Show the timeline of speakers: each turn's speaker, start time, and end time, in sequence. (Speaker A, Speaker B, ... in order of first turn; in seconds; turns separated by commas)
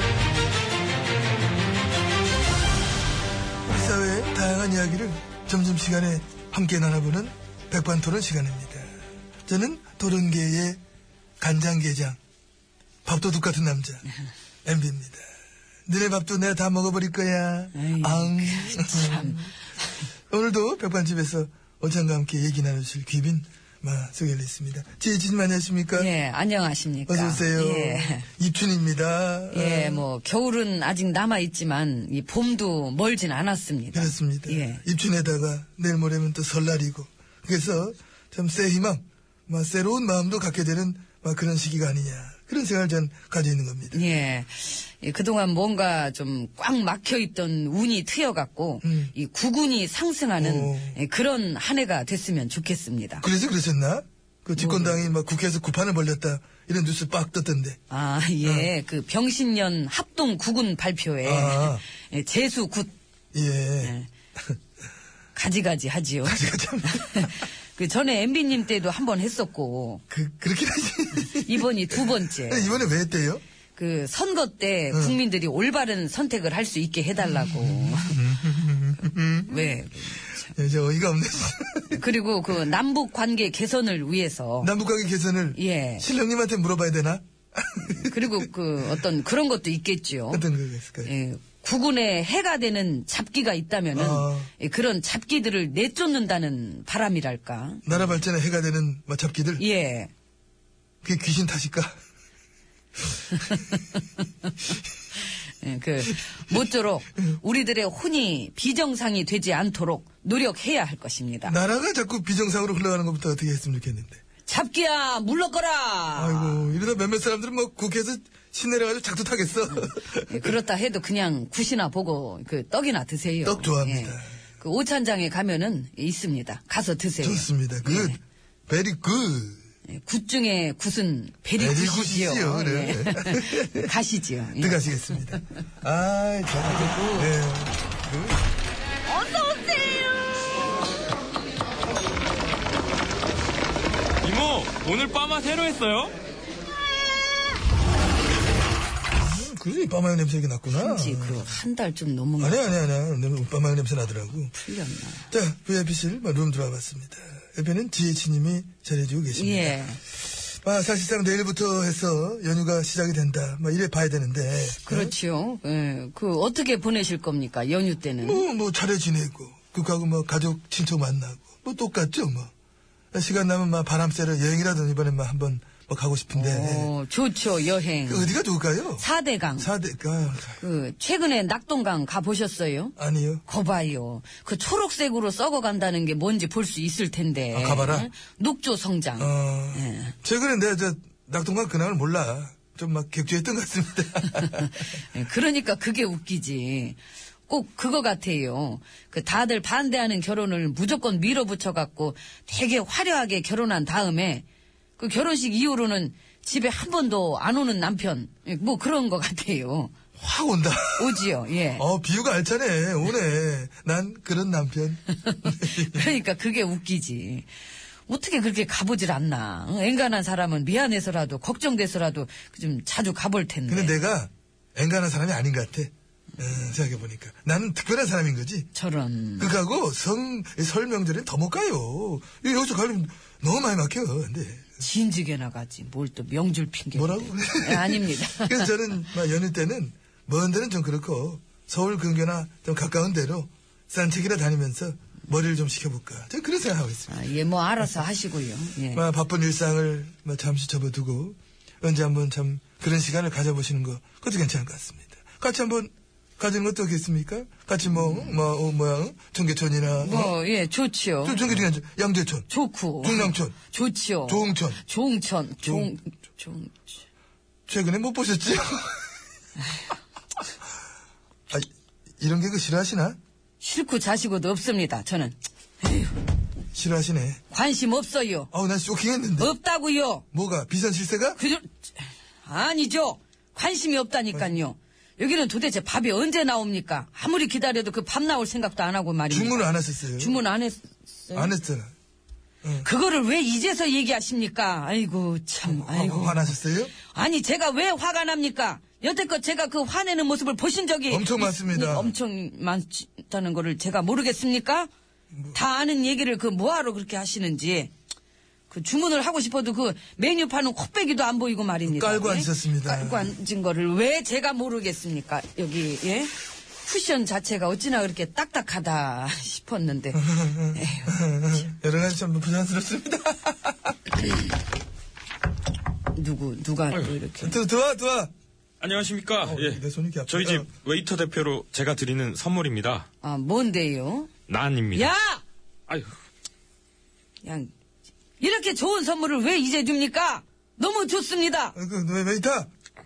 Speaker A: 3.6-8.9, Speaker A: 9.5-10.8, Speaker A: 11.4-12.2, Speaker A: 13.0-14.0, Speaker A: 14.6-15.2, Speaker A: 15.9-19.5, Speaker B: 17.7-20.0, Speaker A: 20.3-26.1, Speaker B: 25.9-28.3, Speaker A: 27.1-30.0, Speaker B: 29.5-34.8, Speaker A: 33.9-44.0, Speaker B: 43.9-53.2, Speaker A: 48.8-49.1, Speaker A: 50.4-51.0, Speaker A: 53.2-57.8, Speaker B: 54.5-55.1, Speaker B: 57.9-62.9, Speaker A: 58.4-58.7, Speaker A: 61.2-61.8, Speaker A: 63.3-63.9, Speaker B: 63.8-64.1, Speaker B: 65.3-70.0, Speaker A: 66.2-67.4, Speaker A: 70.1-73.4, Speaker B: 71.2-72.8, Speaker B: 73.8-78.4, Speaker A: 74.9-75.2, Speaker A: 77.2-79.8, Speaker B: 79.5-80.5, Speaker A: 80.4-82.1, Speaker B: 81.9-84.7, Speaker A: 84.6-89.0, Speaker B: 85.5-86.0, Speaker B: 87.8-90.4, Speaker A: 90.3-91.1, Speaker B: 91.0-98.0, Speaker A: 93.9-94.5, Speaker A: 97.8-99.6, Speaker B: 99.6-100.1, Speaker A: 101.0-102.0, Speaker B: 105.6-111.5, Speaker A: 111.5-114.2, Speaker B: 114.5-116.8, Speaker A: 116.1-120.6, Speaker B: 119.7-128.2, Speaker A: 123.4-124.3, Speaker A: 127.2-129.6, Speaker B: 129.9-135.3, Speaker A: 131.6-133.9, Speaker A: 134.6-138.4, Speaker B: 136.6-137.3, Speaker B: 139.1-140.1, Speaker C: 144.2-146.2, Speaker A: 149.2-151.5, Speaker B: 150.7-152.8, Speaker A: 152.4-154.5, Speaker B: 154.5-155.3, Speaker A: 155.3-165.1, Speaker B: 159.3-160.0, Speaker B: 164.8-168.4, Speaker A: 168.2-172.5, Speaker A: 173.1-176.9, Speaker B: 176.3-178.4, Speaker A: 178.1-179.0, Speaker B: 179.0-179.7, Speaker A: 179.6-180.6, Speaker B: 180.6-182.9, Speaker A: 183.0-183.4, Speaker B: 183.4-190.1, Speaker A: 187.5-188.1, Speaker A: 189.2-194.8, Speaker B: 194.9-204.4, Speaker B: 205.0-209.9, Speaker A: 210.2-216.2, Speaker B: 211.0-211.8, Speaker B: 215.2-217.5, Speaker B: 218.1-223.9, Speaker A: 223.7-228.7, Speaker B: 228.7-229.5, Speaker A: 229.4-234.8, Speaker B: 234.8-238.7, Speaker A: 236.9-247.2, Speaker B: 247.1-249.0, Speaker A: 248.9-260.4, Speaker B: 257.9-258.4, Speaker B: 260.0-261.6, Speaker A: 261.2-262.5, Speaker B: 262.5-266.9, Speaker A: 263.0-263.6, Speaker A: 264.3-264.8, Speaker A: 265.6-265.9, Speaker A: 267.7-269.0, Speaker A: 272.2-273.2, Speaker B: 273.6-276.1, Speaker A: 276.7-277.4, Speaker B: 277.5-278.5, Speaker A: 278.5-279.5, Speaker B: 279.4-280.2, Speaker A: 280.3-281.4, Speaker B: 281.4-281.7, Speaker B: 282.4-291.6, Speaker A: 289.3-290.4, Speaker A: 291.3-291.9, Speaker A: 292.6-292.9, Speaker B: 292.8-304.9, Speaker A: 295.6-296.9, Speaker A: 301.1-302.1, Speaker A: 305.3-305.6, Speaker B: 305.5-307.9, Speaker B: 308.7-316.3, Speaker A: 311.9-313.3, Speaker B: 316.8-321.5, Speaker A: 320.1-323.9, Speaker B: 326.1-327.6, Speaker A: 327.4-328.3, Speaker C: 328.8-333.1, Speaker A: 329.4-330.7, Speaker B: 333.2-334.3, Speaker C: 334.5-335.1, Speaker B: 334.9-335.4, Speaker C: 335.9-336.1, Speaker B: 337.4-337.7, Speaker B: 338.4-341.8, Speaker A: 341.7-342.7